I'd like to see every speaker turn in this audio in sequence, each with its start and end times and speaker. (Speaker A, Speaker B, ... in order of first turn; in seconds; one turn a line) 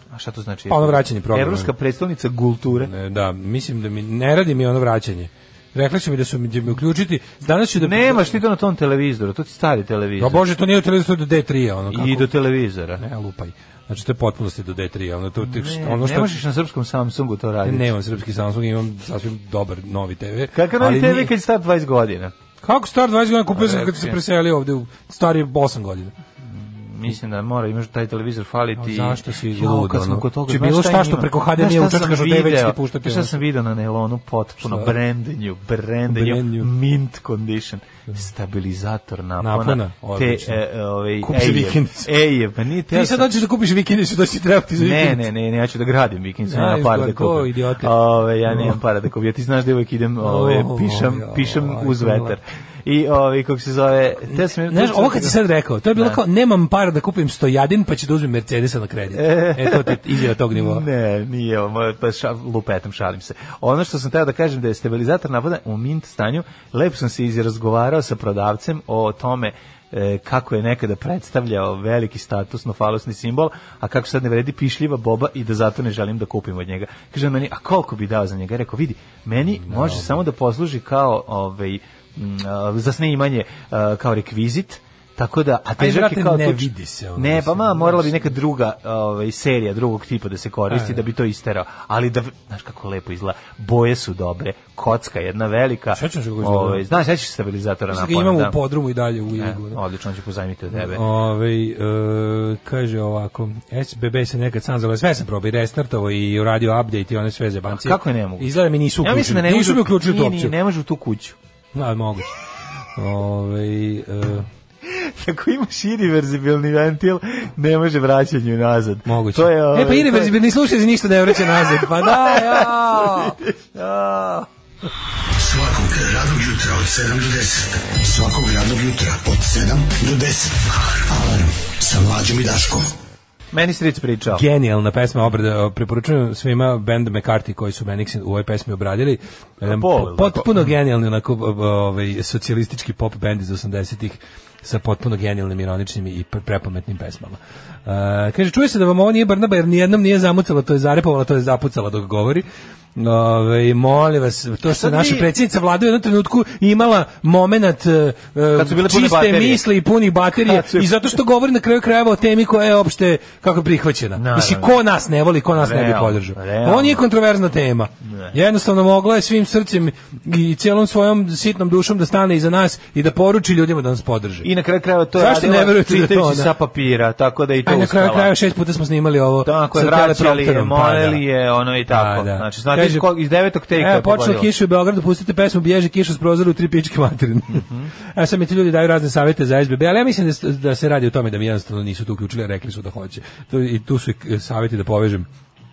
Speaker A: 0.1-2.9
Speaker B: 0.7-1.7
Speaker B: 2.8-8.4
Speaker A: 7.8-10.4
Speaker B: 10.2-12.3
Speaker A: 11.9-13.0
Speaker B: 13.0-16.4
Speaker A: 15.4-17.9
Speaker B: 17.6-21.3
Speaker A: 20.6-22.3
Speaker B: 22.6-26.1
Speaker A: 23.5-24.2
Speaker A: 26.4-43.3
Speaker B: 28.8-33.4
Speaker B: 34.6-34.9
Speaker B: 36.1-36.7
Speaker B: 39.4-40.6
Speaker B: 41.2-42.1
Speaker B: 42.9-45.3
Speaker A: 44.8-55.4
Speaker B: 46.5-47.9
Speaker B: 48.5-48.8
Speaker B: 50.2-52.4
Speaker B: 54.3-60.9
Speaker A: 59.1-98.6
Speaker B: 79.6-80.2
Speaker B: 85.8-88.3
Speaker B: 90.7-91.0
Speaker B: 95.9-96.8
Speaker B: 97.9-99.8
Speaker A: 99.3-101.0
Speaker B: 100.7-110.5
Speaker A: 107.7-111.4
Speaker B: 111.7-112.3
Speaker B: 113.0-114.5
Speaker A: 114.8-120.3
Speaker B: 119.1-123.4
Speaker A: 121.4-124.5
Speaker C: 125.5-130.4
Speaker C: 131.8-132.8
Speaker A: 133.5-134.4
Speaker B: 134.3-174.5
Speaker A: 139.6-140.7
Speaker A: 154.7-155.3
Speaker A: 158.5-159.7
Speaker A: 160.3-160.9
Speaker A: 164.2-164.8
Speaker A: 165.6-167.0
Speaker A: 168.1-168.3
Speaker A: 174.4-178.3
Speaker B: 175.2-176.5
Speaker B: 177.7-181.2
Speaker A: 179.4-184.5
Speaker B: 181.9-183.1
Speaker B: 183.7-195.3
Speaker A: 187.5-187.9